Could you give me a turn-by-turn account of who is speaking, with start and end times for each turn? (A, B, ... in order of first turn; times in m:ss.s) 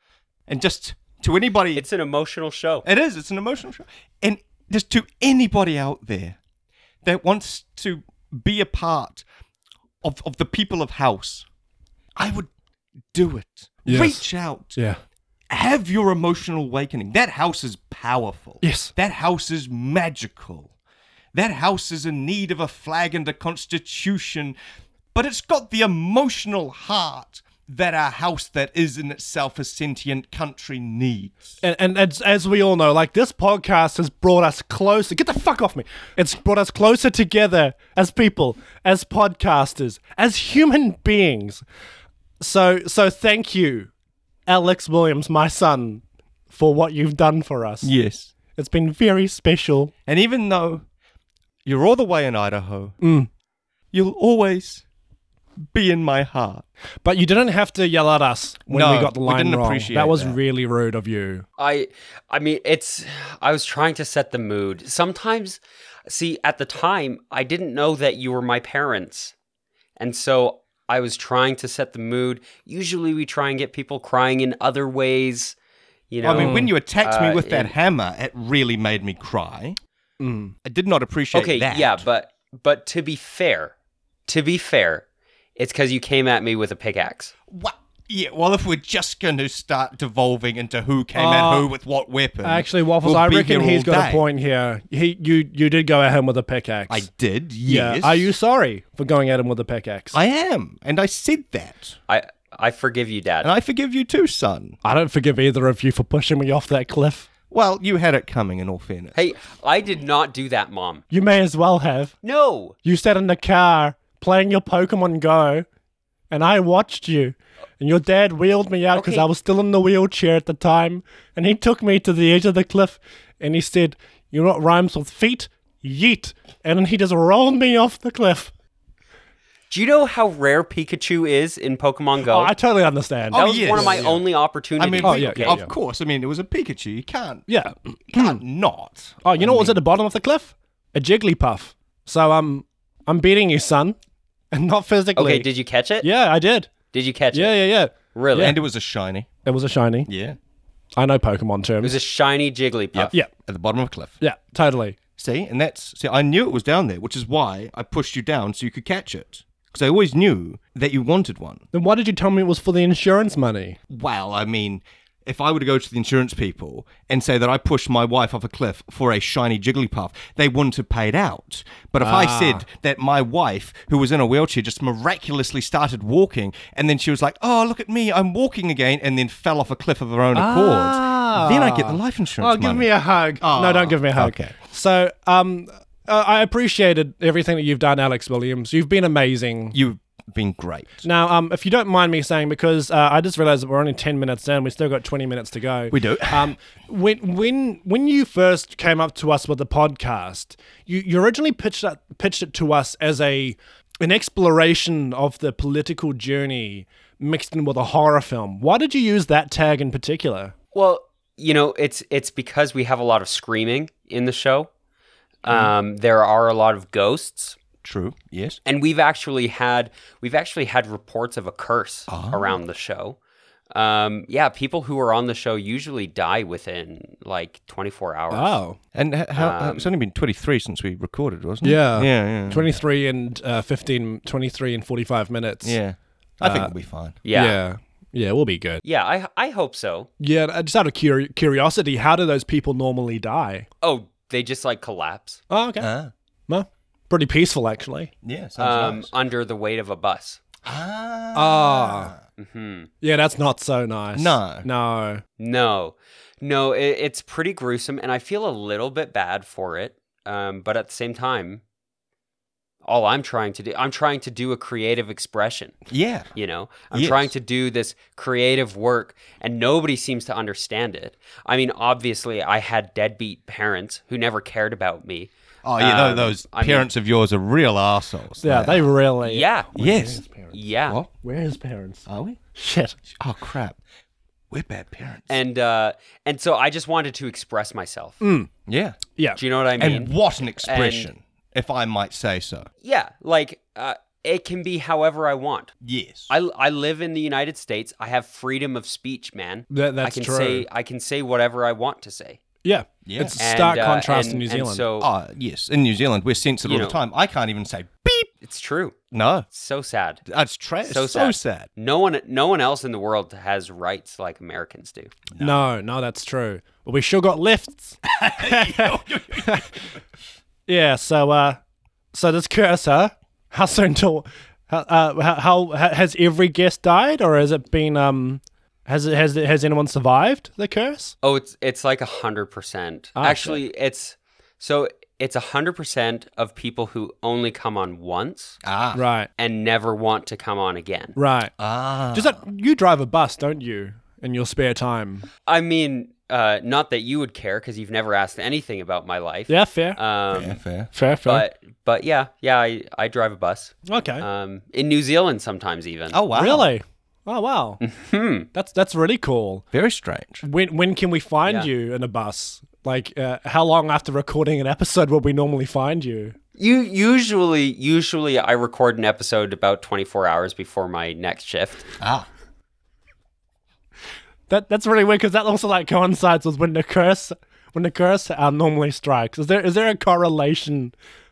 0:00.5-0:01.8 A
0:01.8-0:02.8 B
0:02.8-0:06.4 A
0:07.0-0:09.2 A
0:10.0-0:11.4 A
0:12.2-0:12.5 A
0:13.1-0:14.8 A
0:13.8-0:15.0 C
0:15.5-0:20.7 A
0:18.6-0:18.9 C
0:21.3-0:24.6 A
0:25.1-0:31.6 A
0:31.6-0:41.6 C
0:42.4-0:43.9 C
0:44.5-0:47.9 C
0:47.8-0:48.3 A
0:48.5-0:49.9 C
0:50.0-0:50.8 A
0:51.6-0:52.9 A
0:53.0-0:53.3 C
0:53.9-0:54.8 A
0:55.7-0:56.6 A
0:57.0-1:01.4 C
0:58.7-1:00.4 A
1:01.6-1:09.3 B
1:10.0-1:15.5 B
1:16.1-1:17.7 B
1:16.2-1:19.8 A
1:16.4-1:16.7 C
1:20.2-1:20.5 C
1:20.6-1:22.0 A
1:21.3-1:23.7 B
1:24.3-1:25.0 B
1:25.6-1:27.3 B
1:27.5-1:34.2 A
1:31.1-1:31.7 C
1:32.4-1:37.1 C
1:36.9-1:38.3 A
1:37.6-1:40.2 C
1:40.1-1:42.0 A
1:42.1-1:43.5 B
1:43.4-1:44.8 A
1:44.8-1:47.3 C
1:47.5-1:49.2 A
1:49.1-1:51.0 B
1:51.1-1:52.1 C
1:52.2-1:52.8 B
1:52.8-1:55.6 C
1:56.3-2:08.5 C
1:58.9-1:59.2 B
2:09.7-2:12.5 B
2:12.2-2:14.2 C
2:13.3-2:14.2 A
2:13.3-2:15.6 B
2:14.8-2:17.4 A
2:15.0-2:15.7 C
2:17.5-2:18.4 C
2:18.1-2:19.8 A
2:19.2-2:24.0 C
2:24.5-2:25.5 C
2:25.1-2:26.1 B
2:26.0-2:26.7 C
2:26.9-2:27.6 B
2:27.3-2:28.6 C
2:28.1-2:28.6 B
2:28.4-2:29.3 A
2:29.4-2:30.1 C
2:30.1-2:30.4 A
2:31.0-2:32.0 C
2:31.8-2:33.1 B
2:32.9-2:34.2 A
2:34.2-2:35.0 C
2:35.2-2:41.6 A
2:41.7-2:43.8 C
2:43.9-3:02.9 A
2:52.0-2:52.6 C
3:00.3-3:09.8 C
3:03.4-3:04.5 A
3:09.7-3:11.0 A
3:11.0-3:30.5 C
3:15.9-3:16.5 A
3:30.7-3:34.7 B
3:35.4-3:37.6 B
3:37.8-3:38.6 A
3:38.6-3:43.2 B
3:42.1-3:42.5 A
3:43.7-3:48.6 B
3:48.3-3:48.8 C
3:48.9-3:52.7 A
3:49.4-3:49.9 B
3:51.6-3:55.8 C
3:55.6-3:57.2 A
3:56.4-3:56.7 C
3:57.2-3:57.6 B
3:57.3-3:58.8 C
3:58.8-4:00.1 B
4:00.2-4:03.7 C
4:03.8-4:05.4 B
4:05.5-4:05.9 C
4:05.8-4:06.1 A
4:06.5-4:08.1 C
4:08.2-4:09.1 A
4:08.6-4:10.4 B
4:10.6-4:12.2 A
4:11.3-4:12.1 C
4:12.4-4:12.9 B
4:13.0-4:15.2 C
4:14.2-4:14.6 A
4:15.4-4:21.6 B
4:22.8-4:25.8 B
4:25.9-4:26.3 A
4:26.3-4:36.9 B
4:26.9-4:27.3 A
4:35.6-4:38.8 A
4:38.4-4:40.5 C
4:39.2-4:39.7 B
4:39.8-4:40.2 A
4:40.5-4:41.0 B
4:41.2-4:43.0 C
4:42.1-4:42.4 A
4:43.2-4:43.8 A
4:44.5-4:45.4 A
4:45.3-4:48.2 B
4:48.2-4:48.5 C
4:48.7-4:49.0 A
4:49.4-4:51.1 B
4:49.8-4:52.7 A
4:52.8-4:55.7 B
4:55.8-4:56.3 A
4:56.3-5:02.4 B
4:59.7-5:00.6 C
5:02.6-5:04.8 C
5:03.0-5:03.4 A
5:03.4-5:05.1 B
5:05.0-5:08.3 A
5:06.6-5:07.0 B
5:08.4-5:09.0 B
5:09.1-5:09.5 A
5:09.5-5:10.2 B
5:10.3-5:11.7 A
5:10.8-5:15.1 B
5:15.3-5:15.6 A
5:15.4-5:19.8 C
5:18.0-5:19.7 A
5:20.7-5:21.6 C
5:22.1-5:31.1 C
5:31.2-5:38.6 B
5:33.2-5:33.6 C
5:38.6-5:39.0 A
5:39.0-5:39.3 C
5:39.4-5:41.2 B
5:41.2-5:41.5 C
5:41.6-5:42.4 A
5:42.1-5:45.3 C
5:45.5-5:50.6 B
5:49.5-5:50.0 C
5:50.3-5:50.9 A
5:50.9-5:51.4 C
5:51.2-5:56.2 B
5:53.9-5:54.2 C
5:56.1-5:56.7 A
5:56.3-5:57.8 C
5:57.8-5:58.5 B
5:58.5-5:59.6 C
5:59.7-6:00.4 A
6:00.4-6:06.3 C
6:06.6-6:11.9 B
6:12.0-6:12.3 A
6:14.5-6:20.9 C